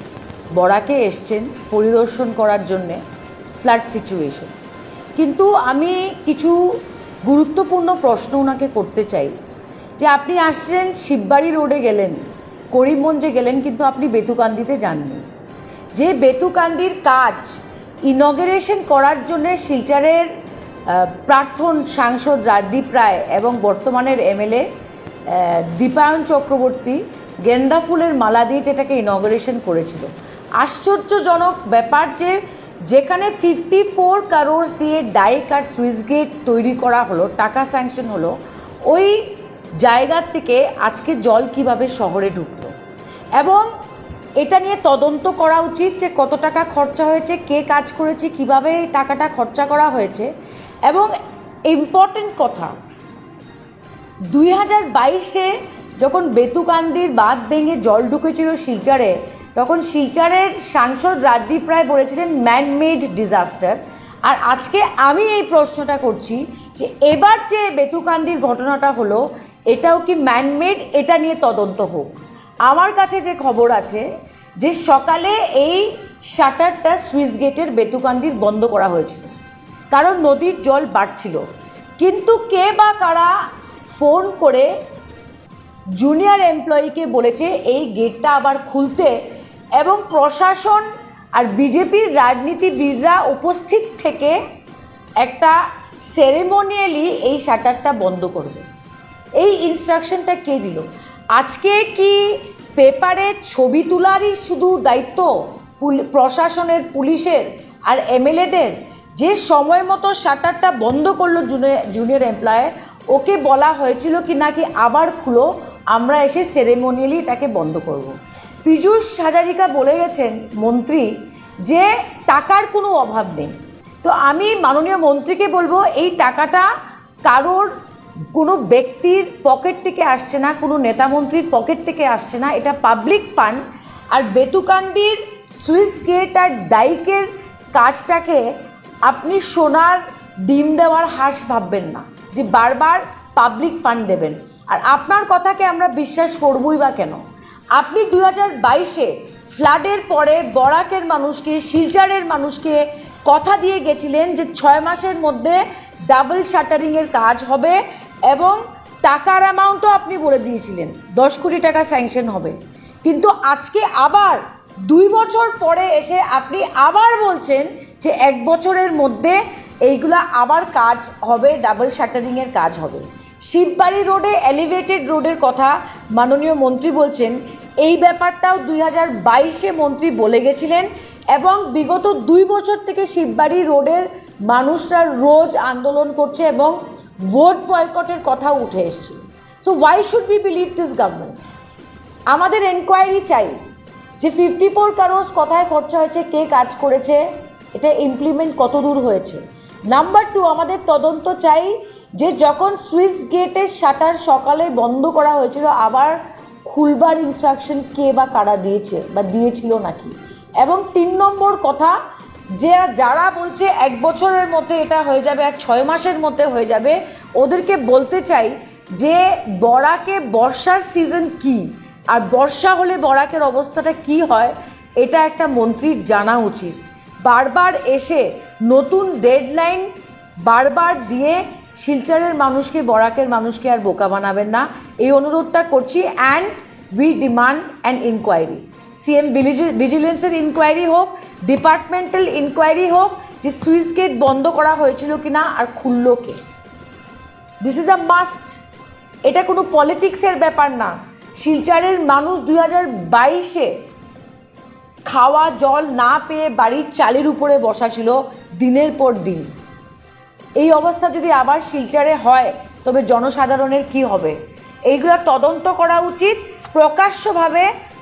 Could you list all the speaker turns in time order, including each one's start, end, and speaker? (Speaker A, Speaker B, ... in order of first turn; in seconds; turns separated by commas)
Speaker A: 0.5-3.0, Speaker A: 3.6-4.5, Speaker A: 5.2-9.3, Speaker A: 10.0-15.2, Speaker A: 15.9-20.3, Speaker A: 20.9-24.7, Speaker A: 25.3-38.4, Speaker A: 38.9-42.7, Speaker A: 43.4-43.7, Speaker A: 44.4-50.3, Speaker A: 50.9-51.1, Speaker A: 51.7-52.8, Speaker A: 54.3-74.0, Speaker A: 74.6-79.3, Speaker A: 79.9-81.4, Speaker A: 82.0-83.3, Speaker A: 83.9-84.7, Speaker A: 86.0-89.2, Speaker A: 89.8-94.4, Speaker A: 95.2-98.6, Speaker A: 99.4-121.1, Speaker A: 121.6-126.7, Speaker A: 127.2-127.7, Speaker A: 128.3-138.5, Speaker A: 139.0-147.2, Speaker A: 147.7-191.4, Speaker A: 192.3-193.6, Speaker A: 194.2-212.0, Speaker A: 212.6-229.9, Speaker A: 230.4-246.4, Speaker A: 247.6-248.6, Speaker A: 249.2-253.7, Speaker A: 255.1-259.5, Speaker A: 260.6-264.4, Speaker A: 264.9-267.7